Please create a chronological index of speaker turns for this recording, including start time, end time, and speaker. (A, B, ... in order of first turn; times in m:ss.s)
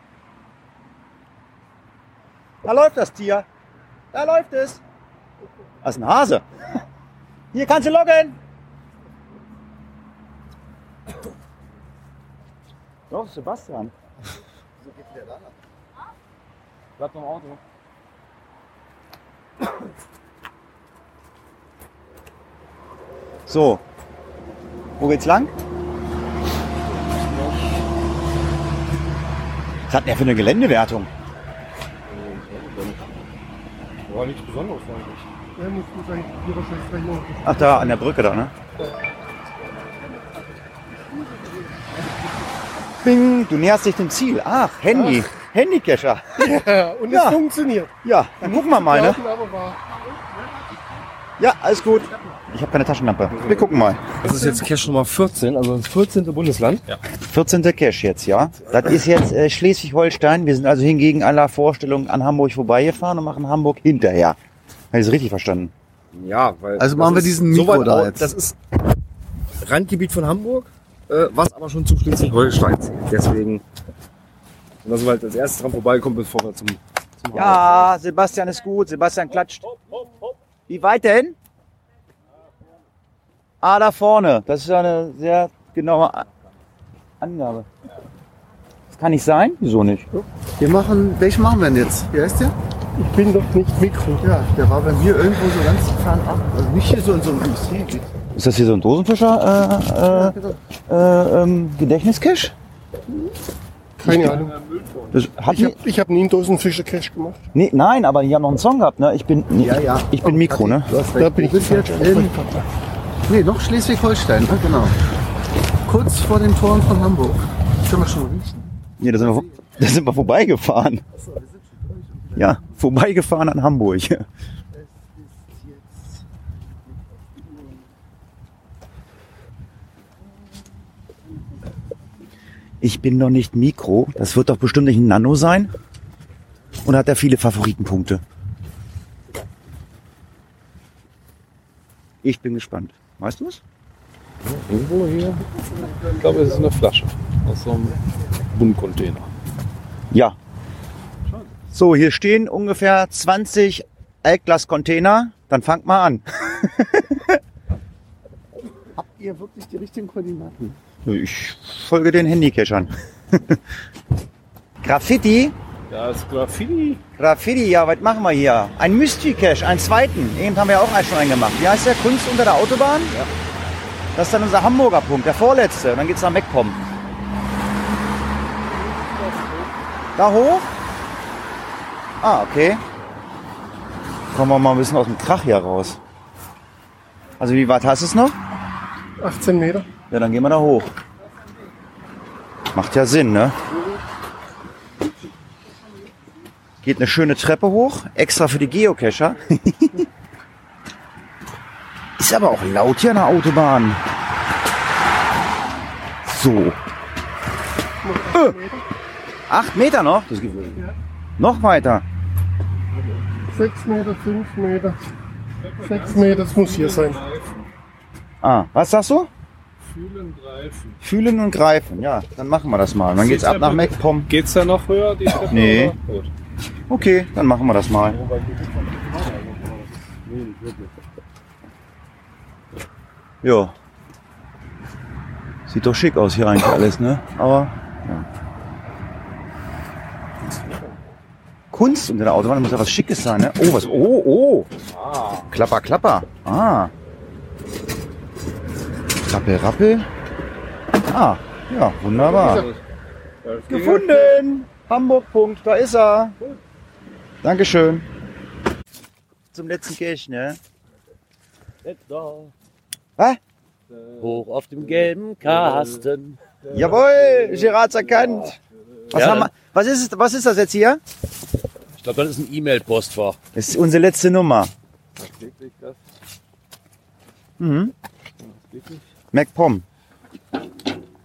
0:02.6-0:03.4 A
0:04.1-0:04.8 A
0:05.8-0:06.4 A
0:07.5-0:08.4 A
0:13.1-0:13.9 A
0:14.9-0:15.4 B
0:17.0-0:17.6 C
0:23.5-0:23.8 A
0:25.0-0:25.5 A
0:27.0-0:27.6 C
0:29.9-0:31.1 A
0:32.1-0:33.1 C
0:34.1-0:35.3 C
0:35.6-0:38.0 D
0:37.4-0:38.5 A
0:43.0-0:46.5 A
0:44.9-0:45.2 D
0:46.4-0:49.8 D
0:47.1-0:47.4 A
0:48.0-0:49.2 A
0:51.4-0:54.2 A
0:53.4-0:56.8 C
0:57.2-1:04.4 A
1:04.9-1:05.7 A
1:06.1-1:08.6 C
1:06.8-1:08.3 B
1:09.6-1:13.6 C
1:14.8-1:17.8 C
1:17.3-1:19.6 A
1:20.7-1:21.4 A
1:23.6-1:26.3 A
1:27.2-1:27.7 A
1:28.9-1:30.0 A
1:30.6-1:32.5 B
1:33.0-1:34.2 D
1:34.2-1:38.1 B
1:38.3-1:40.4 A
1:40.1-1:40.6 B
1:40.9-1:42.5 A
1:44.0-1:44.5 D
1:44.0-1:44.4 A
1:44.6-1:45.0 E
1:45.1-1:45.8 A
1:45.4-1:47.4 D
1:47.5-1:50.9 A
1:49.6-1:52.3 B
1:51.1-1:52.6 D
1:53.3-1:55.0 B
1:55.8-1:59.5 B
1:59.0-2:01.0 A
2:01.1-2:02.8 B
2:02.4-2:04.2 A
2:04.7-2:06.1 B
2:12.8-2:15.7 A
2:16.8-2:18.2 A
2:22.2-2:23.6 A
2:24.4-2:28.0 E
2:28.5-2:29.3 E
2:30.1-2:30.4 A
2:31.7-2:37.4 A
2:38.9-2:40.8 B
2:41.0-2:43.6 A
2:44.8-2:45.5 A
2:45.9-2:47.0 E
2:47.2-2:53.1 A
2:54.2-2:56.8 A
3:00.2-3:00.7 A
3:02.2-3:02.8 A
3:04.3-3:06.0 A
3:07.4-3:08.4 A
3:09.2-3:09.9 D
3:10.1-3:10.9 A
3:12.7-3:13.6 A
3:16.8-3:20.1 A
3:22.2-3:24.0 A
3:26.2-3:26.8 A
3:28.0-3:28.8 D
3:29.5-3:30.8 A
3:31.4-3:32.0 A
3:33.5-3:35.0 D
3:35.6-3:37.6 E
3:35.8-3:37.2 D
3:38.4-3:39.3 A
3:39.8-3:41.0 E
3:41.0-3:44.3 A
3:43.2-3:46.3 E
3:45.4-3:45.9 A
3:46.9-3:48.2 A
3:48.1-3:50.9 C
3:53.4-3:53.7 A
3:55.7-3:58.2 A
4:01.7-4:04.7 A
4:05.0-4:05.5 C
4:05.5-4:06.9 A
4:09.3-4:10.1 A
4:11.1-4:12.6 A
4:12.1-4:12.8 E
4:13.4-4:14.4 E
4:13.7-4:16.4 A
4:17.4-4:18.0 A
4:19.5-4:20.6 A
4:21.8-4:22.5 F
4:24.2-4:26.4 F
4:25.6-4:25.8 E
4:26.7-4:27.6 E
4:26.7-4:28.6 A
4:29.1-4:29.5 F
4:29.1-4:31.0 A
4:32.0-4:33.4 F
4:33.5-4:34.7 A
4:35.2-4:35.9 C
4:37.6-4:37.9 A
4:38.6-4:39.0 E
4:39.3-4:39.8 A